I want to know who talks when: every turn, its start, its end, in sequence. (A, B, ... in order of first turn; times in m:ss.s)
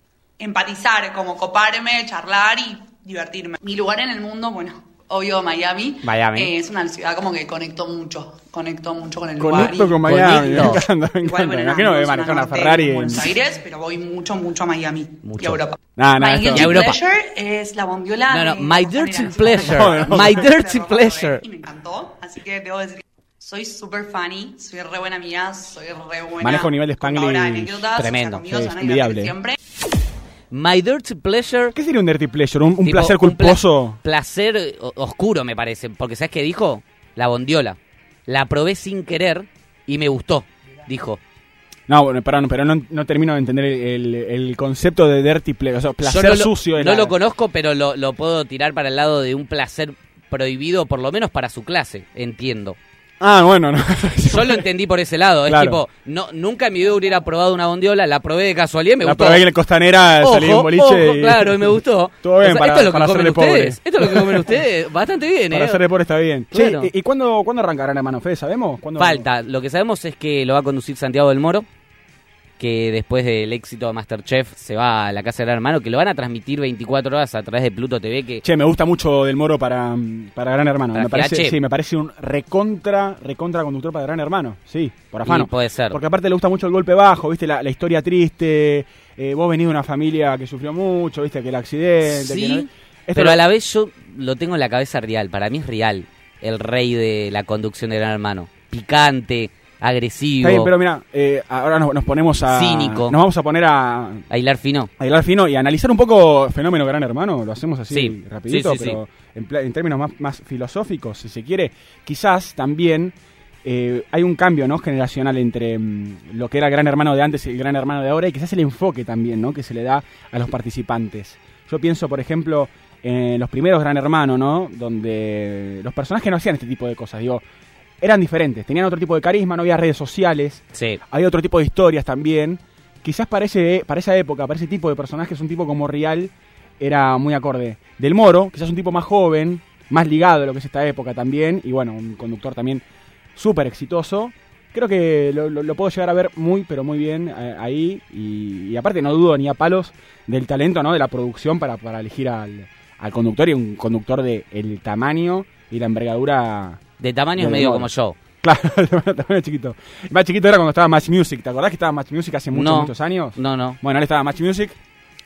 0:00.4-0:29.6 A
0:06.0-0:06.5 B
0:09.4-0:13.3 C
0:09.5-0:10.8 B
0:15.2-0:15.6 B
0:16.0-0:16.7 C
0:16.5-0:17.0 B
0:18.3-0:21.4 B
0:19.7-0:20.4 C
0:26.4-0:27.9 C
0:28.0-0:28.4 B
0:28.4-0:29.4 C
0:30.5-0:31.7 B
0:31.8-0:34.0 C
0:32.8-0:41.2 B
0:41.9-0:47.2 C
0:46.0-0:52.8 B
0:53.2-0:54.6 C
0:54.3-0:59.4 B
0:55.5-0:55.8 C
0:59.0-1:04.6 C
1:00.2-1:05.8 B
1:05.5-1:09.2 C
1:06.5-1:06.9 B
1:09.0-1:11.7 B
1:12.6-1:18.4 B
1:18.4-1:33.4 C
1:20.9-1:21.6 B
1:25.2-1:26.0 B
1:32.0-1:40.7 B
1:40.4-1:44.2 C
1:42.5-1:43.2 B
1:44.3-1:44.9 B
1:45.0-2:07.4 C
1:47.9-1:49.0 B
2:08.0-2:22.8 C
2:10.7-2:11.0 B
2:23.4-2:36.8 C
2:37.0-2:38.2 B
2:37.4-2:37.9 C
2:38.4-2:44.8 C
2:42.5-2:43.8 B